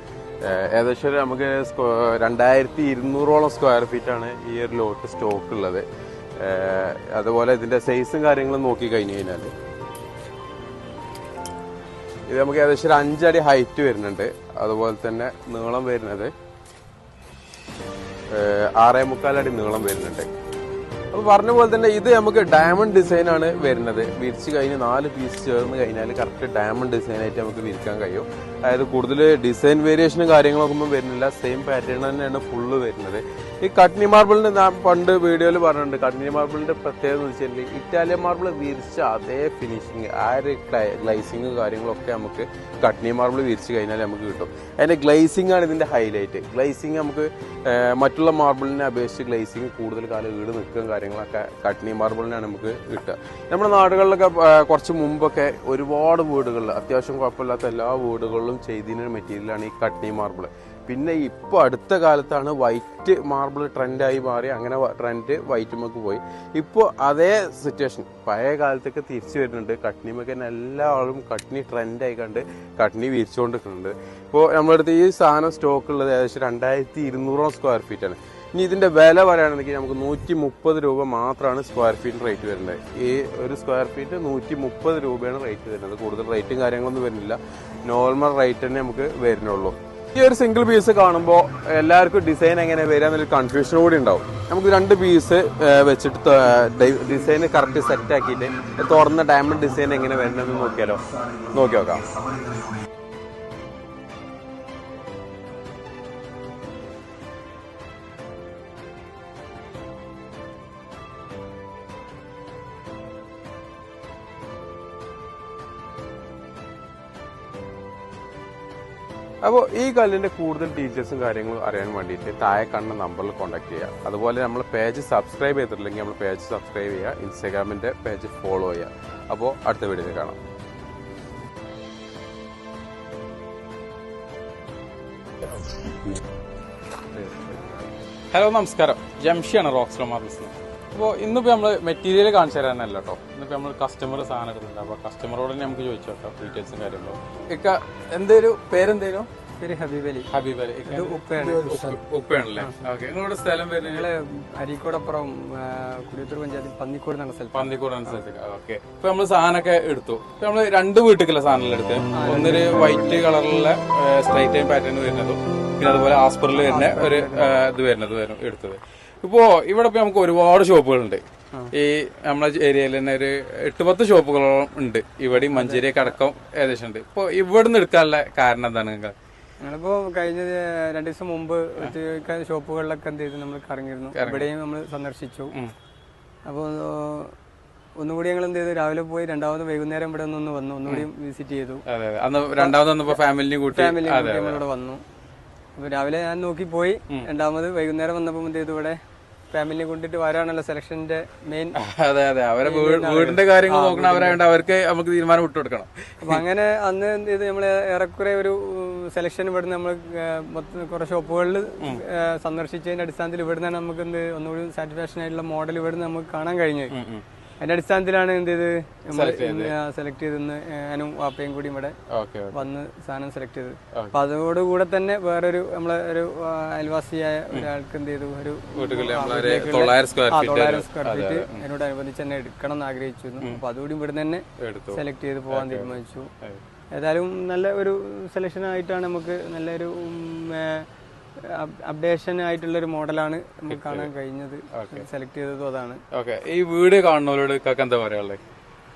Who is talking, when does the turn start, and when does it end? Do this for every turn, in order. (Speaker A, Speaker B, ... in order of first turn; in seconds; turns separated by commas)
Speaker A: 0.4-5.8, Speaker A: 6.4-9.5, Speaker A: 12.3-16.3, Speaker A: 18.3-20.3, Speaker A: 21.1-102.2, Speaker A: 119.4-130.4, Speaker A: 137.2-137.5, Speaker A: 138.3-149.3, Speaker B: 149.6-150.3, Speaker A: 150.3-154.1, Speaker B: 150.8-152.0, Speaker B: 153.8-158.2, Speaker A: 157.5-179.1, Speaker B: 162.1-163.3, Speaker B: 166.6-167.6, Speaker B: 175.3-176.2, Speaker B: 179.6-185.5, Speaker A: 184.1-184.5, Speaker B: 186.5-187.3, Speaker B: 188.0-191.8, Speaker A: 191.9-194.6, Speaker B: 192.5-195.0, Speaker B: 195.8-199.0, Speaker B: 199.5-201.8, Speaker A: 201.7-206.4, Speaker B: 202.6-204.4, Speaker B: 206.2-216.9, Speaker A: 216.9-217.2, Speaker B: 217.6-221.9, Speaker A: 219.1-219.7, Speaker A: 222.1-222.7, Speaker B: 222.5-236.3, Speaker A: 228.7-231.6, Speaker A: 234.6-236.6, Speaker B: 236.9-240.8, Speaker B: 241.4-246.0, Speaker A: 243.7-244.1, Speaker A: 244.7-245.0, Speaker A: 246.1-248.4